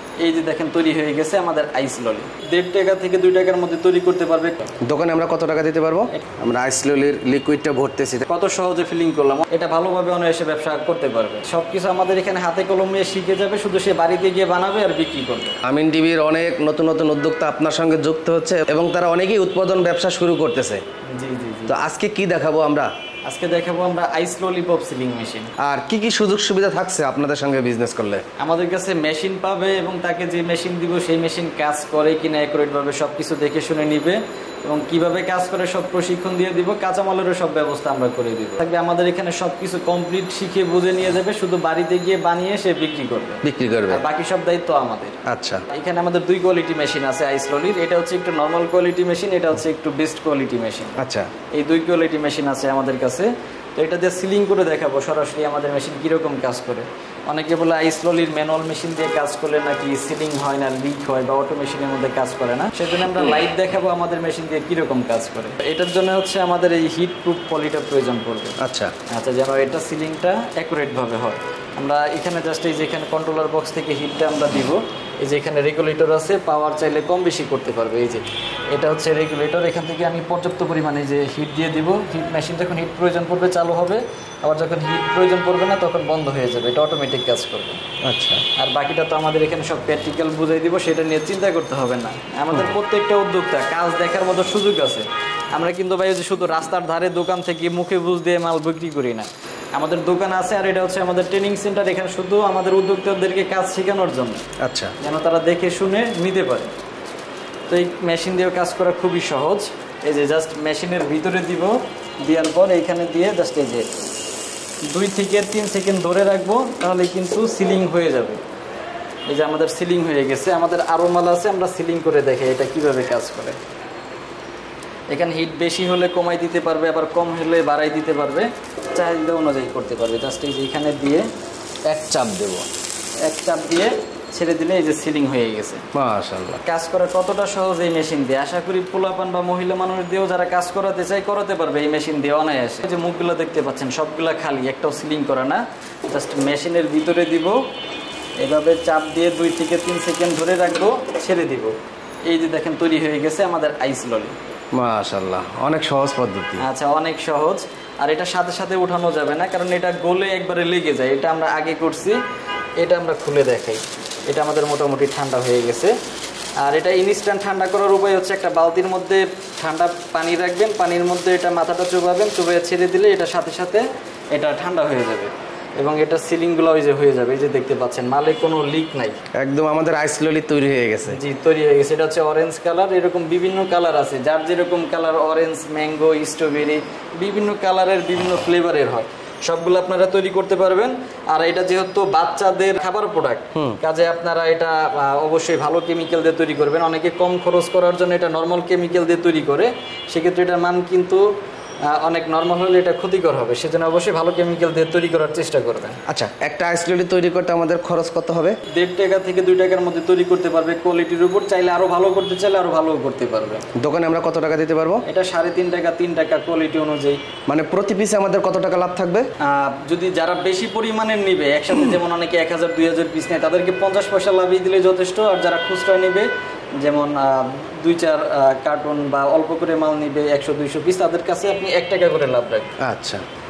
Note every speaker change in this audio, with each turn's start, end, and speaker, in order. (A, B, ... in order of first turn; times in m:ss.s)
0:00.2-0:04.7 A
0:04.8-0:08.3 B
0:08.3-0:15.6 A
0:15.6-0:20.8 B
0:21.1-0:21.7 A
0:21.7-0:22.9 B
0:23.2-0:25.5 A
0:25.6-0:28.2 B
0:28.4-0:51.0 A
0:43.4-0:44.0 B
0:45.2-0:45.6 B
0:51.0-0:51.3 B
0:51.5-1:08.6 A
1:08.6-1:08.9 B
1:09.1-1:27.8 A
1:28.0-1:28.4 B
1:28.6-1:44.4 A
1:44.6-1:44.9 B
1:45.0-1:46.7 A
1:47.7-1:53.9 A
1:54.9-1:58.4 A
1:59.3-2:03.6 A
2:05.1-2:11.2 A
2:11.8-2:12.7 B
2:13.2-2:15.8 A
2:15.9-2:16.6 B
2:16.6-2:27.6 A
2:28.4-2:31.7 A
2:32.3-2:34.3 A
2:34.7-2:36.6 B
2:36.6-2:42.2 A
2:42.8-2:45.9 A
2:46.6-2:59.2 A
2:59.4-3:01.2 B
3:01.1-3:21.2 A
3:21.9-3:26.0 A
3:26.1-3:28.6 B
3:28.7-3:33.6 A
3:33.8-3:35.0 B
3:35.0-3:37.2 A
3:37.5-3:39.3 B
3:39.4-3:46.3 A
3:46.8-3:52.7 A
3:52.8-3:53.2 B